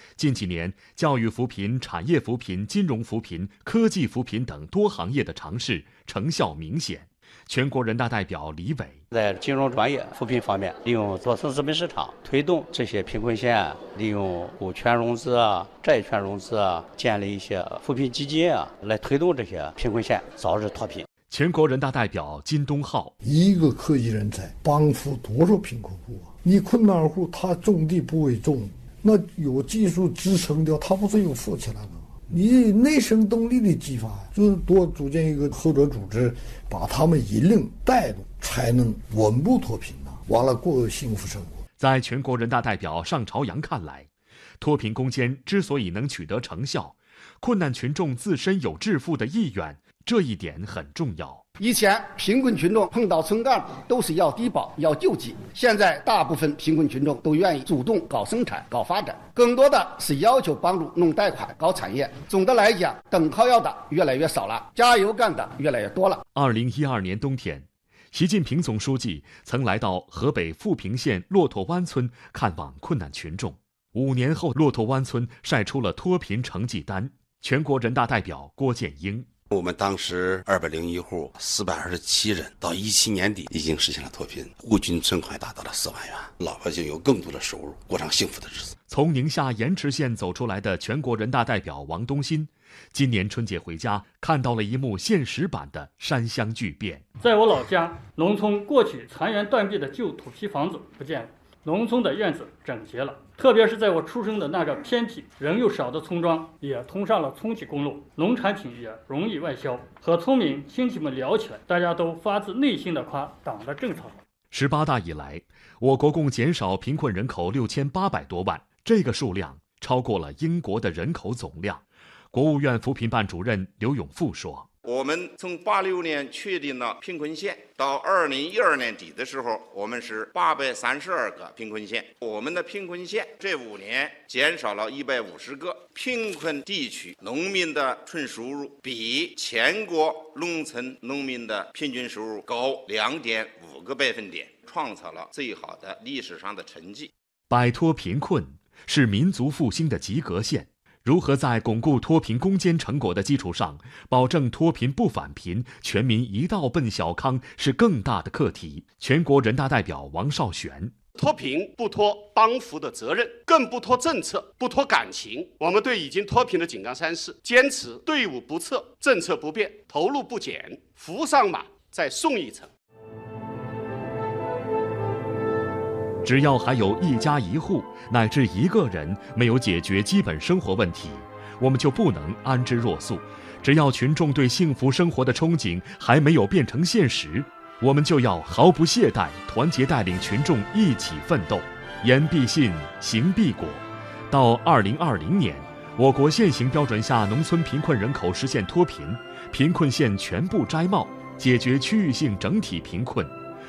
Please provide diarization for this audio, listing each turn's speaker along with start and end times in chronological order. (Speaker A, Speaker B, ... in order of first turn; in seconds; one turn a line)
Speaker A: 0.2-9.0
Speaker B: 9.1-21.1
Speaker A: 21.3-23.1
Speaker C: 23.2-41.6
Speaker A: 41.8-51.4
Speaker D: 51.6-66.2
Speaker A: 66.3-79.3
Speaker E: 79.5-88.7
Speaker A: 88.9-97.0
Speaker F: 97.2-114.2
Speaker A: 114.5-124.7
Speaker G: 124.8-147.1
Speaker A: 147.5-160.9
Speaker H: 161.2-172.7
Speaker A: 176.2-203.3